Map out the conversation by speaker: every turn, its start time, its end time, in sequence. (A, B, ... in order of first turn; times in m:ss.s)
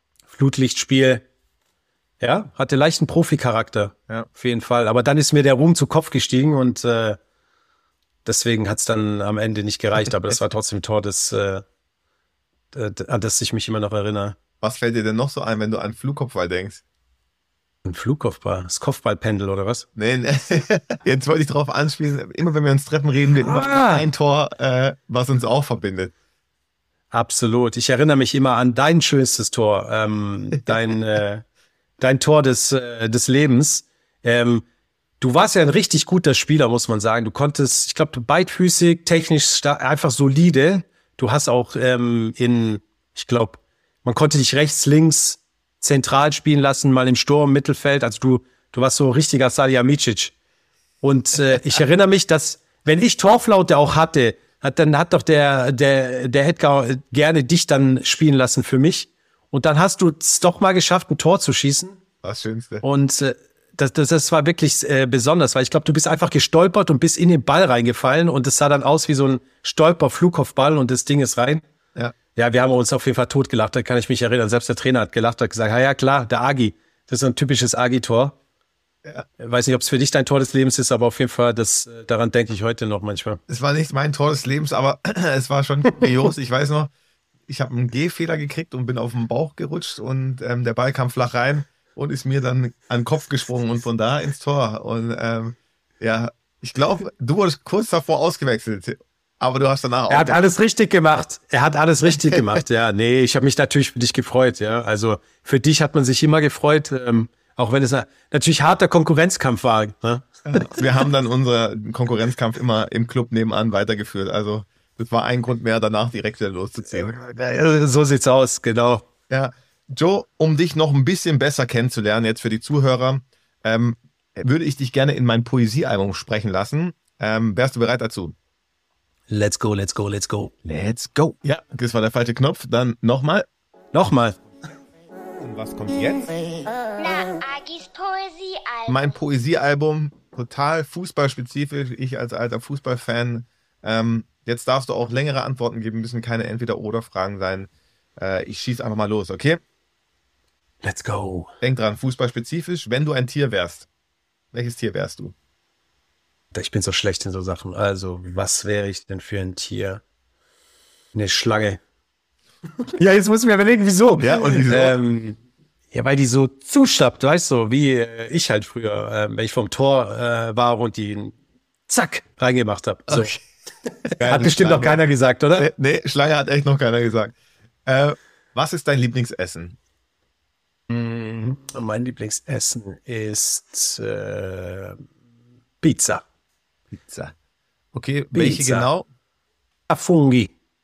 0:00.3-0:01.2 A
0:02.2-0:07.2 A
0:08.2-0:11.6 A
0:12.7-0:14.4 A
0:14.6-0:16.8 B
0:17.8-0:19.9 A
0:20.0-0:26.1 B
0:23.4-0:24.0 A
0:27.1-0:31.4 A
0:32.0-0:34.6 A
0:35.2-0:50.3 A
0:51.0-1:02.0 A
1:02.2-1:02.8 B
1:02.8-1:11.6 A
1:12.4-1:18.4 A
1:19.4-1:23.4 A
1:23.5-1:26.9 B
1:27.5-1:40.4 B
1:40.1-1:50.7 A
1:50.5-1:57.1 B
1:56.9-1:59.0 A
1:59.3-2:08.4 B
2:09.3-2:10.5 A
2:10.6-2:13.5 B
2:13.9-2:14.4 A
2:15.4-2:16.4 B
2:17.0-2:19.2 C
2:18.9-2:29.6 B
2:30.8-2:31.5 A
2:31.6-2:33.9 B
2:34.5-2:35.3 B
2:36.5-2:40.0 A
2:41.1-2:41.8 A
2:42.9-2:45.4 A
2:44.2-2:44.9 B
2:45.9-2:51.4 A
2:51.9-2:53.4 A
2:53.1-2:53.4 B
2:54.0-2:55.0 B
2:54.2-2:55.7 A
2:55.6-2:59.8 B
3:00.9-3:05.0 A
3:05.8-3:06.2 A
3:06.9-3:07.4 B
3:07.9-3:09.1 B
3:08.3-3:08.9 A
3:09.9-3:10.5 A